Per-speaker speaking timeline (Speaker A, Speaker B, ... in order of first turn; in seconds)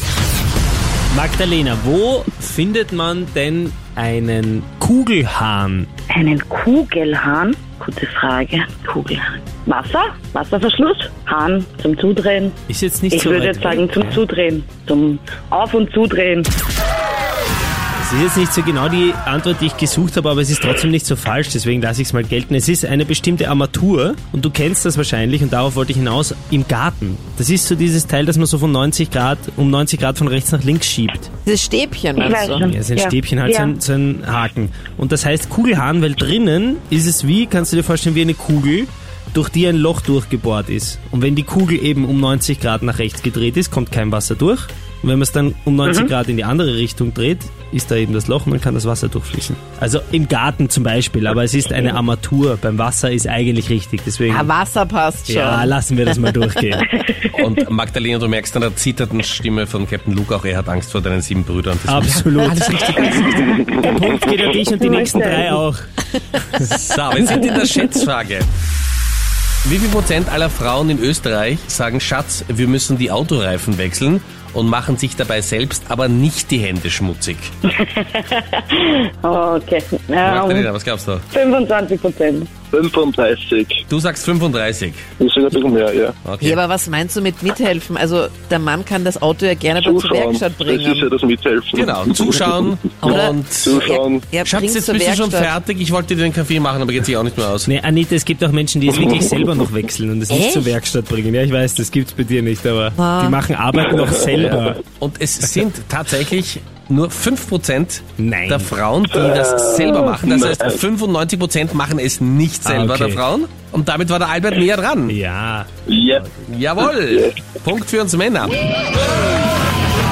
Speaker A: 1.1-5.9, 12.7-14.2, 18.0-31.3, 32.6-54.5, 55.3-56.9, 61.9-65.8, 66.4-66.7, 97.7-104.8, 108.2-108.7, 112.6-113.2, 115.1-116.5
Speaker B: 6.1-12.6, 13.1-16.5, 32.2-33.7, 45.8-46.1, 64.8-65.6, 67.3-67.9, 77.7-80.7, 81.3-82.5
Speaker C: 31.4-32.7, 54.3-56.5, 86.4-91.1, 93.0-95.6, 100.3-100.7, 102.9-103.4
Speaker D: 57.3-63.6, 66.5-68.5, 69.6-77.5, 80.2-81.2, 83.9-85.0, 86.2-86.6, 91.7-93.8, 94.4-97.7, 105.0-115.2, 116.5-118.5
Speaker E: 63.7-64.2, 82.7-83.8, 85.2-86.2, 89.8-94.2, 109.1-110.8, 115.9-116.3, 116.8-117.4